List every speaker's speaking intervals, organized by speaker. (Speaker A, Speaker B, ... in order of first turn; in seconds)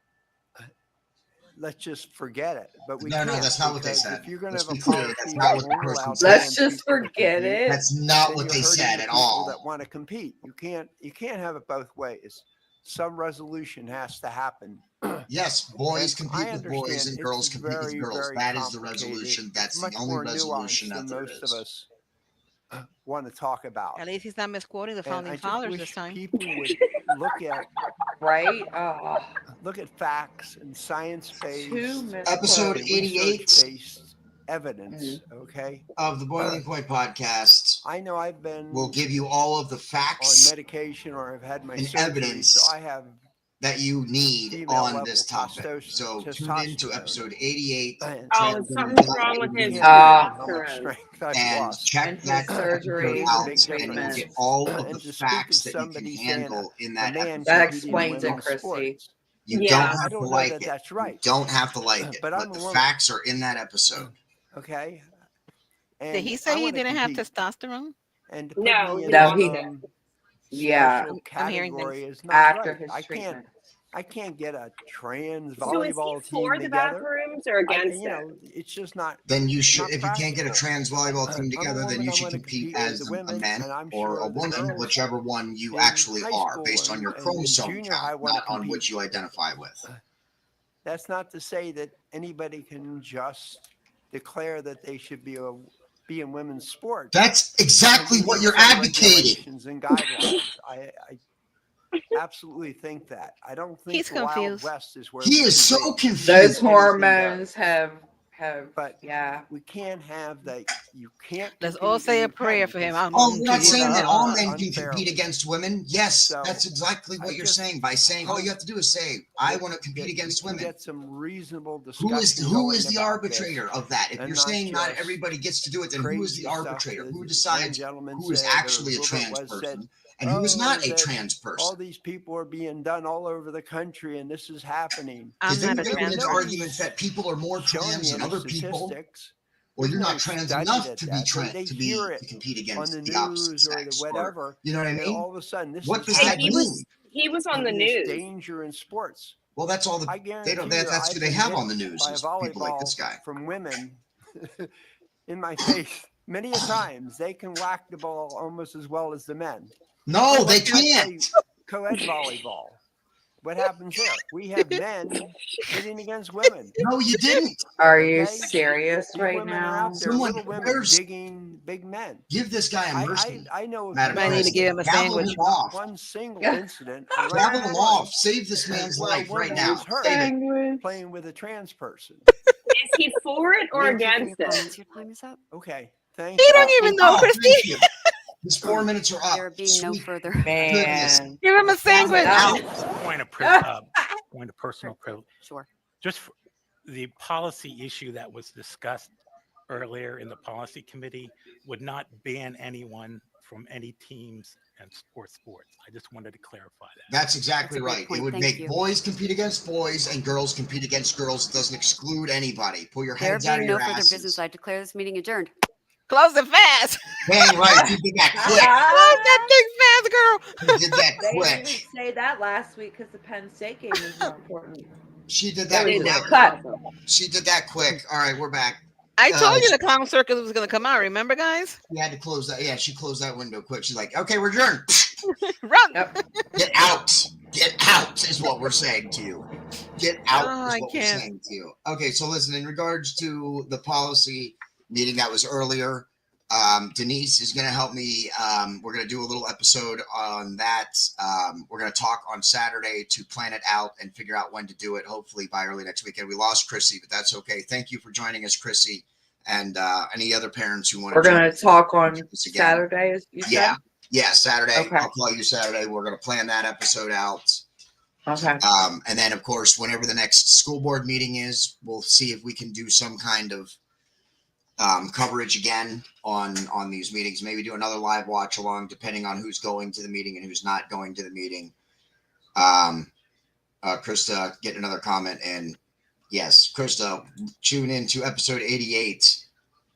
Speaker A: 1.5-7.6, 8.2-15.3, 15.9-21.9, 22.7-24.1, 25.0-27.7, 29.6-36.6, 37.8-39.0, 40.2-43.2, 44.5-47.2, 48.0-48.4, 49.3-51.9, 52.5-59.1, 59.8-61.2, 62.0-62.9, 64.0-65.2, 66.0-67.3, 68.3-69.8, 70.5-73.4, 73.9-77.1, 77.7-80.6, 81.3-85.0, 85.7-88.8, 90.8-97.2, 97.9-101.2, 102.1-107.5, 108.7-115.2, 116.2-116.6, 117.2-118.5, 119.4-123.6, 124.2-125.2, 125.9-136.5, 137.6-142.2, 142.8-146.6, 147.5-149.4, 150.1-154.7, 155.3-159.7, 160.3-162.8, 163.4-166.7, 167.9-172.2, 172.9-178.1, 178.7-182.3, 185.5-186.7
Speaker B: 3.0-6.4, 7.6-9.6, 15.3-21.6, 32.2-33.6, 36.0-37.8, 38.7-40.5, 41.8-42.7, 43.6-50.1, 51.3-58.5, 59.5-64.1, 79.3-89.8, 97.1-99.4, 105.2-106.8, 113.1-120.7, 122.0-131.7, 135.4-138.9, 139.8-145.2, 145.8-146.8, 149.6-153.2, 160.1-161.3, 166.8-167.6, 170.0-171.0, 172.3-175.8, 177.3-179.9, 186.5-187.8, 188.4-191.2, 191.9-192.7, 207.1-214.4, 217.2-218.8, 220.6-221.8, 225.3-226.4, 227.1-229.8, 231.9-235.1, 236.5-261.5, 262.1-262.8, 263.4-267.6, 268.4-273.7, 274.8-281.7, 282.5-283.1, 283.8-285.8, 286.3-289.4
Speaker C: 6.2-7.8, 28.2-29.3, 31.5-32.9, 34.9-35.2, 49.8-50.4, 52.0-54.3, 57.5-59.0, 69.1-69.6, 70.5-71.1, 72.3-73.5, 106.2-109.5, 167.8-170.0, 179.5-180.8, 190.4-191.4, 191.9-192.8, 193.4-193.7, 217.6-219.6, 221.2-224.9, 225.7-226.6, 261.1-263.8, 264.8-265.1, 268.3-268.6
Speaker D: 24.0-26.2, 66.1-67.9, 71.1-72.0, 103.9-104.7, 111.6-114.3, 135.4-136.8, 174.1-175.4, 186.4-187.9, 191.4-192.6, 216.1-217.0, 218.6-221.1, 223.9-224.3, 229.2-231.8, 235.4-236.6, 240.3-241.3
Speaker E: 26.4-27.0, 48.3-50.9, 59.5-60.0, 68.6-69.8, 75.6-78.2, 146.1-148.2, 182.7-184.7, 225.8-226.8
Speaker F: 183.8-185.4, 189.3-190.8, 194.8-195.7, 207.6-208.8, 213.2-215.5
Speaker G: 192.5-195.2, 196.0-196.3, 196.8-199.1, 199.7-207.1